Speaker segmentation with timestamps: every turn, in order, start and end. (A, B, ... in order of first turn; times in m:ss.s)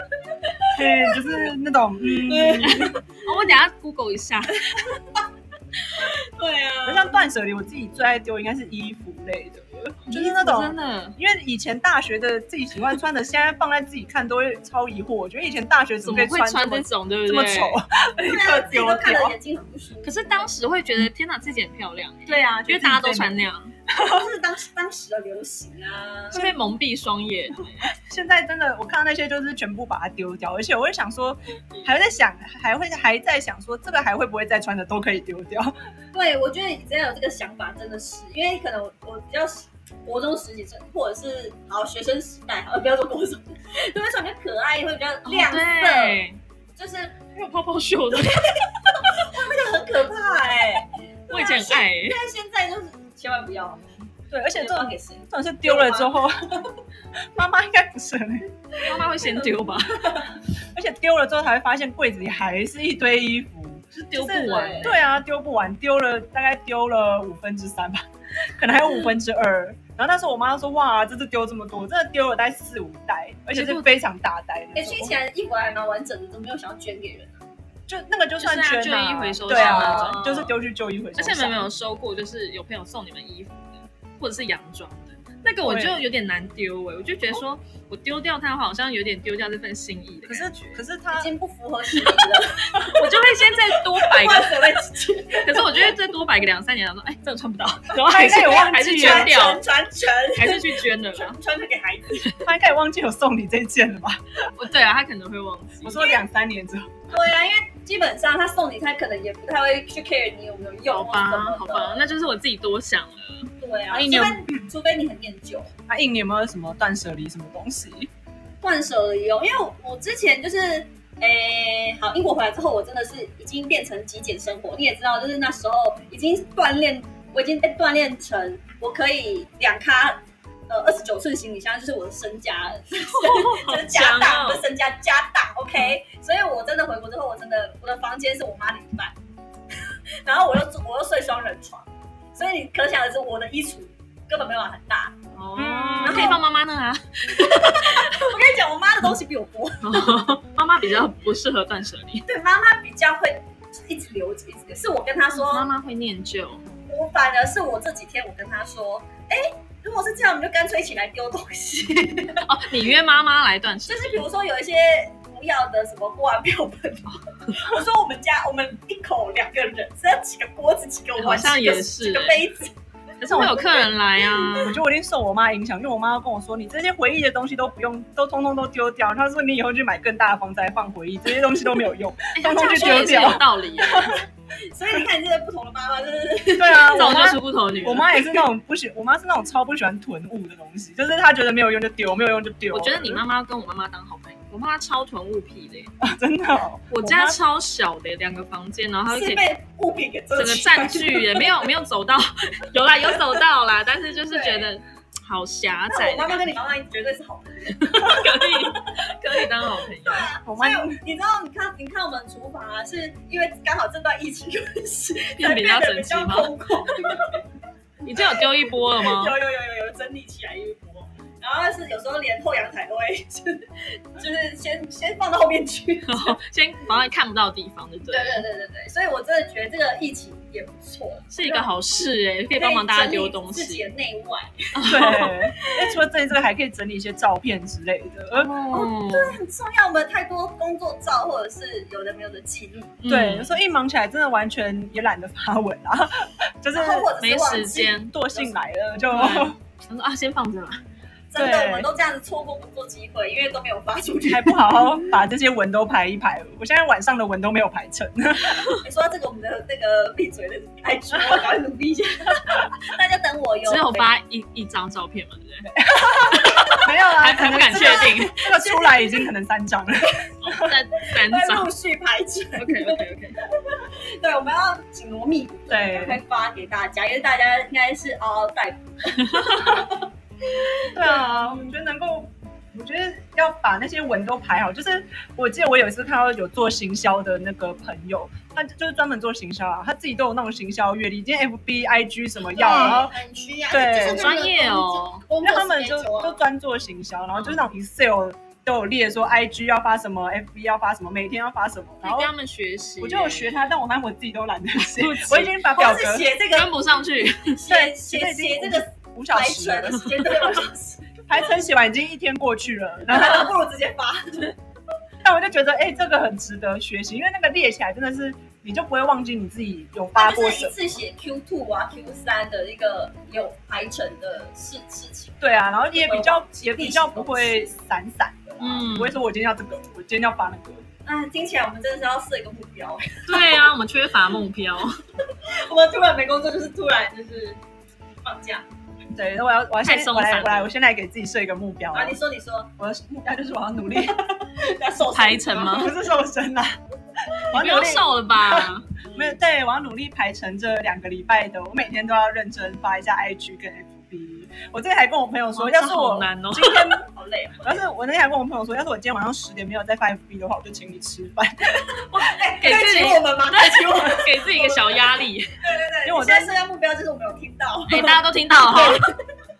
0:00.6-0:01.1 A
0:00.7-0:02.9 B
0:02.3-0:03.0 A
0:02.6-0:04.7 C
0:06.0-0:07.2 A
0:06.8-0:19.3 B
0:10.1-0:11.2 C
0:16.0-0:17.8 C
0:18.2-0:20.5 A
0:20.0-0:23.7 C
0:22.3-0:24.2 B
0:23.9-0:26.4 A
0:26.3-0:27.9 C
0:27.8-0:35.7 B
0:36.1-0:46.2 A
0:45.2-0:46.4 C
0:46.8-0:47.2 A
0:47.3-0:49.1 C
0:48.8-0:53.8 A
0:51.3-0:52.2 C
0:54.3-0:56.4 B
0:54.5-0:56.7 A
0:57.3-0:58.5 B
0:58.8-1:00.3 A
0:58.8-1:00.2 C
1:00.7-1:15.1 B
1:03.9-1:05.0 C
1:04.3-1:04.9 A
1:13.5-1:13.9 C
1:14.7-1:17.4 A
1:17.9-1:21.6 B
1:18.4-1:20.5 C
1:19.5-1:20.5 A
1:21.2-1:30.8 C
1:25.6-1:26.0 B
1:30.3-1:31.3 B
1:31.1-1:33.0 A
1:32.8-1:34.8 C
1:34.0-1:35.7 A
1:35.4-1:39.6 C
1:38.0-1:39.3 B
1:38.2-1:42.4 A
1:40.4-1:41.4 C
1:42.4-1:44.4 B
1:44.5-1:46.0 C
1:45.8-1:46.9 B
1:47.1-1:52.0 A
1:50.8-1:53.5 C
1:53.6-1:55.7 A
1:53.9-1:54.7 B
1:55.9-1:58.1 B
1:58.6-2:19.1 A
2:13.0-2:14.6 C
2:20.2-2:25.2 A
2:25.3-2:28.1 C
2:25.6-2:26.4 B
2:26.0-2:26.4 A
2:27.4-2:30.2 A
2:29.8-2:32.2 C
2:32.2-2:35.7 A
2:35.3-2:36.6 C
2:36.9-2:42.5 A
2:42.4-2:44.2 C
2:43.9-2:52.7 A
2:51.2-2:52.4 C
2:53.2-2:54.8 C
2:53.3-2:53.9 B
2:54.5-3:04.2 B
3:02.3-3:04.1 C
3:04.7-3:07.3 A
3:06.6-3:13.2 B
3:06.9-3:08.2 C
3:12.7-3:15.9 C
3:16.0-3:17.4 B
3:16.9-3:19.4 C
3:19.1-3:21.4 A
3:20.3-3:26.6 C
3:24.3-3:24.7 A
3:25.9-3:28.7 A
3:27.8-3:30.3 C
3:30.0-3:37.4 A
3:30.4-3:31.0 B
3:35.4-3:36.5 C
3:38.0-3:39.4 C
3:38.0-3:46.4 A
3:46.1-3:48.4 C
3:48.1-3:51.6 A
3:51.3-3:53.9 C
3:52.6-3:54.8 A
3:54.8-3:55.7 C
3:54.9-3:58.5 B
3:58.3-3:59.4 C
3:58.7-4:03.0 A
4:03.0-4:03.5 C
4:03.0-4:07.1 B
4:06.7-4:08.5 A
4:07.2-4:08.1 C
4:08.1-4:09.5 B
4:09.1-4:10.8 C
4:11.3-4:14.9 A
4:11.4-4:11.9 B
4:14.3-4:18.6 B
4:18.8-4:24.1 A
4:23.6-4:25.7 C
4:25.6-4:30.7 B
4:26.2-4:28.4 C
4:27.7-4:29.0 A
4:30.4-4:31.7 C
4:31.2-4:33.0 A
4:32.6-4:33.4 C
4:33.6-4:40.9 A
4:35.7-4:36.2 B
4:40.9-4:53.1 B
4:52.5-4:56.4 A
4:52.6-4:53.0 C
4:53.7-4:54.4 B
4:53.9-4:55.2 C
4:55.4-5:02.3 B
4:57.4-4:57.6 C
5:02.0-5:03.5 C
5:03.0-5:06.3 B
5:04.9-5:05.6 C
5:05.7-5:06.7 A
5:06.5-5:07.6 C
5:07.3-5:11.1 A
5:07.7-5:10.1 B
5:11.3-5:13.5 B
5:13.1-5:14.5 A
5:15.2-5:20.8 B
5:20.2-5:27.7 A
5:25.4-5:30.8 B
5:28.6-5:29.2 C
5:31.0-5:33.6 A
5:33.3-5:34.9 C
5:35.5-5:37.6 A
5:38.2-5:38.6 A
5:39.2-5:42.2 B
5:39.8-5:40.7 C
5:41.9-5:42.7 A
5:42.8-5:44.4 B
5:44.1-5:45.9 A
5:45.1-5:45.9 C
5:45.6-5:46.8 B
5:47.3-5:57.0 B
5:47.5-5:48.9 C
5:55.5-5:56.9 C
5:56.9-5:57.7 A
5:57.6-6:02.0 B
6:02.1-6:05.5 C
6:02.1-6:09.1 A
6:06.0-6:06.5 B
6:07.9-6:09.1 C